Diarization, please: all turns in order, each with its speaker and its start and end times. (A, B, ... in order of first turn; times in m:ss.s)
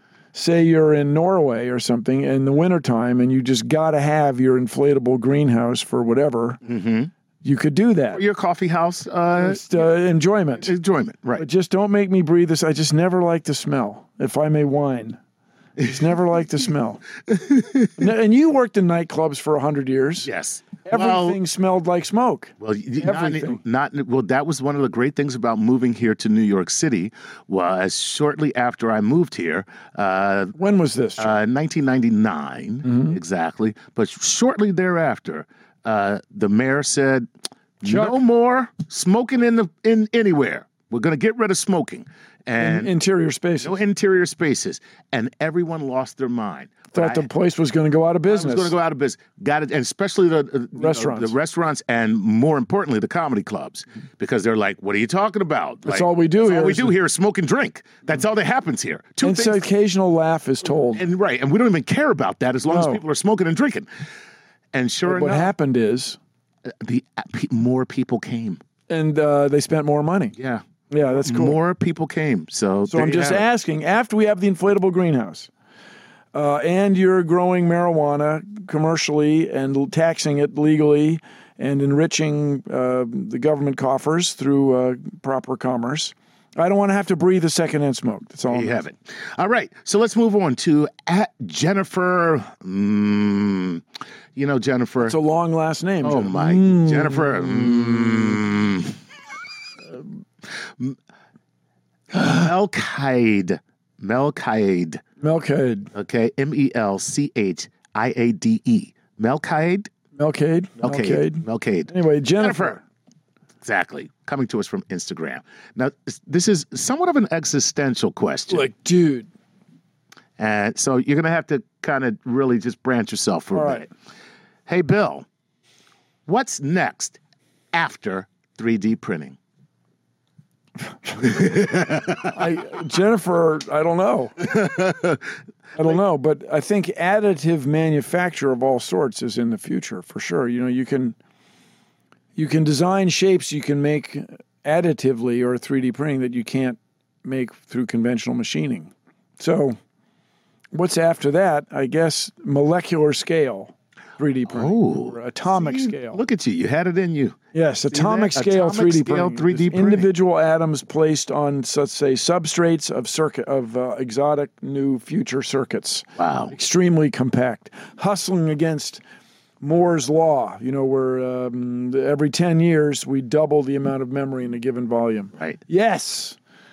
0:00.3-0:06.6 A
0:06.6-0:07.1 B
0:07.4-0:08.2 A
0:08.1-0:09.8 B
0:09.4-0:10.7 A
0:10.6-0:11.5 B
0:11.4-0:15.2 A
0:15.8-0:17.0 A
0:17.3-0:17.9 B
0:18.0-0:20.3 A
0:20.2-0:21.4 B
0:20.9-0:23.6 A
0:22.6-0:30.6 B
0:30.6-0:31.3 A
0:31.2-0:37.3 B
0:32.8-0:33.2 A
0:37.8-0:42.9 B
0:37.8-0:38.2 A
0:42.6-0:43.8 A
0:43.6-0:47.3 B
0:46.9-0:48.7 A
0:48.3-0:59.6 B
0:50.8-0:51.3 A
0:55.9-0:57.0 A
0:59.2-1:01.0 A
1:00.9-1:03.9 B
1:02.7-1:03.0 A
1:04.7-1:05.5 B
1:05.1-1:06.2 A
1:06.7-1:08.6 B
1:08.9-1:10.4 A
1:10.4-1:13.4 B
1:10.9-1:11.6 A
1:12.9-1:15.5 A
1:16.3-1:28.8 A
1:28.5-1:33.8 B
1:34.4-1:35.2 B
1:35.0-1:38.4 A
1:36.0-1:39.0 B
1:40.5-1:41.0 B
1:42.1-1:45.0 B
1:45.2-1:45.9 A
1:45.9-1:49.9 B
1:50.2-1:52.8 A
1:50.8-1:52.8 B
1:53.6-1:58.7 B
1:58.5-1:59.3 A
2:00.4-2:03.9 B
2:03.5-2:03.9 A
2:04.7-2:05.2 B
2:06.3-2:07.2 B
2:07.7-2:09.4 B
2:11.2-2:12.4 B
2:12.2-2:14.4 A
2:14.4-2:15.2 B
2:15.8-2:21.2 A
2:22.4-2:29.8 A
2:30.7-2:36.2 A
2:34.5-2:37.4 B
2:37.5-2:49.0 A
2:37.9-2:40.1 B
2:46.2-2:46.5 B
2:49.6-2:56.4 A